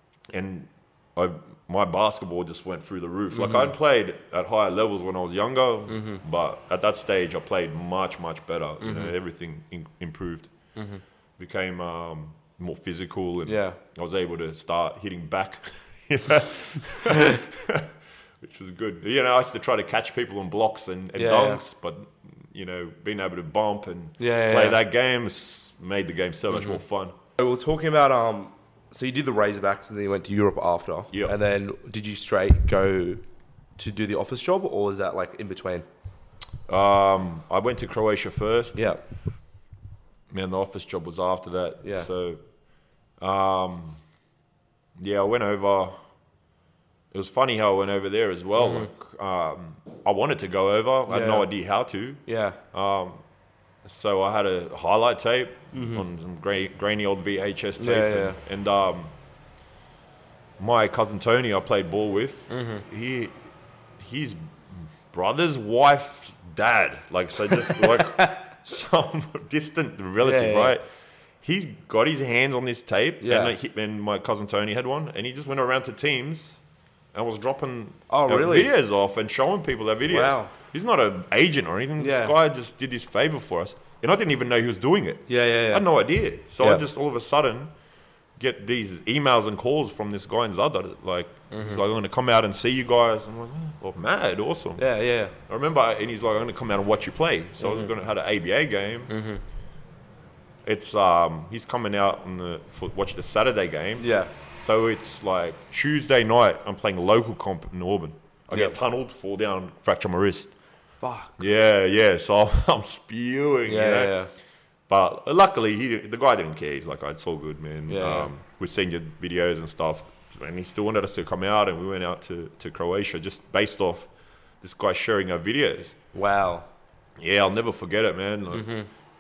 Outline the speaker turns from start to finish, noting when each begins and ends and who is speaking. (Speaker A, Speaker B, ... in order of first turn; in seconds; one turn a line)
Speaker A: 0.3-10.5
Speaker B: 3.3-3.7
Speaker B: 5.9-6.2
Speaker B: 8.8-9.2
Speaker B: 10.8-11.0
Speaker A: 11.4-27.1
Speaker B: 13.5-13.8
Speaker B: 21.1-21.6
Speaker B: 24.2-24.8
Speaker B: 26.5-26.8
Speaker B: 27.4-33.2
Speaker B: 33.8-35.9
Speaker A: 36.7-38.9
Speaker B: 38.8-39.0
Speaker A: 40.3-42.4
Speaker B: 41.8-42.1
Speaker A: 43.2-44.0
Speaker A: 45.0-46.0
Speaker A: 47.1-53.2
Speaker B: 48.6-48.9
Speaker B: 51.1-51.5
Speaker B: 52.3-52.6
Speaker A: 53.8-59.1
Speaker B: 55.7-56.0
Speaker B: 57.8-58.4
Speaker A: 60.6-70.8
Speaker B: 62.5-62.9
Speaker B: 67.5-68.5
Speaker B: 70.2-70.7
Speaker A: 71.4-76.6
Speaker B: 73.2-73.5
Speaker A: 77.1-87.7
Speaker B: 78.1-78.7
Speaker B: 80.1-80.5
Speaker B: 82.0-82.3
Speaker B: 85.3-85.9
Speaker B: 86.6-86.8
Speaker A: 88.4-94.8
Speaker B: 91.5-91.8
Speaker B: 94.8-95.3
Speaker A: 95.5-99.1
Speaker B: 97.6-97.9
Speaker B: 99.1-99.4
Speaker A: 100.6-110.5
Speaker B: 104.0-104.3
Speaker B: 108.5-108.8
Speaker B: 111.0-111.4
Speaker A: 111.4-114.2
Speaker B: 113.7-114.3
Speaker A: 114.9-124.1
Speaker B: 117.9-118.3
Speaker A: 124.6-126.0
Speaker B: 126.1-126.7
Speaker A: 127.2-128.7
Speaker B: 128.5-128.9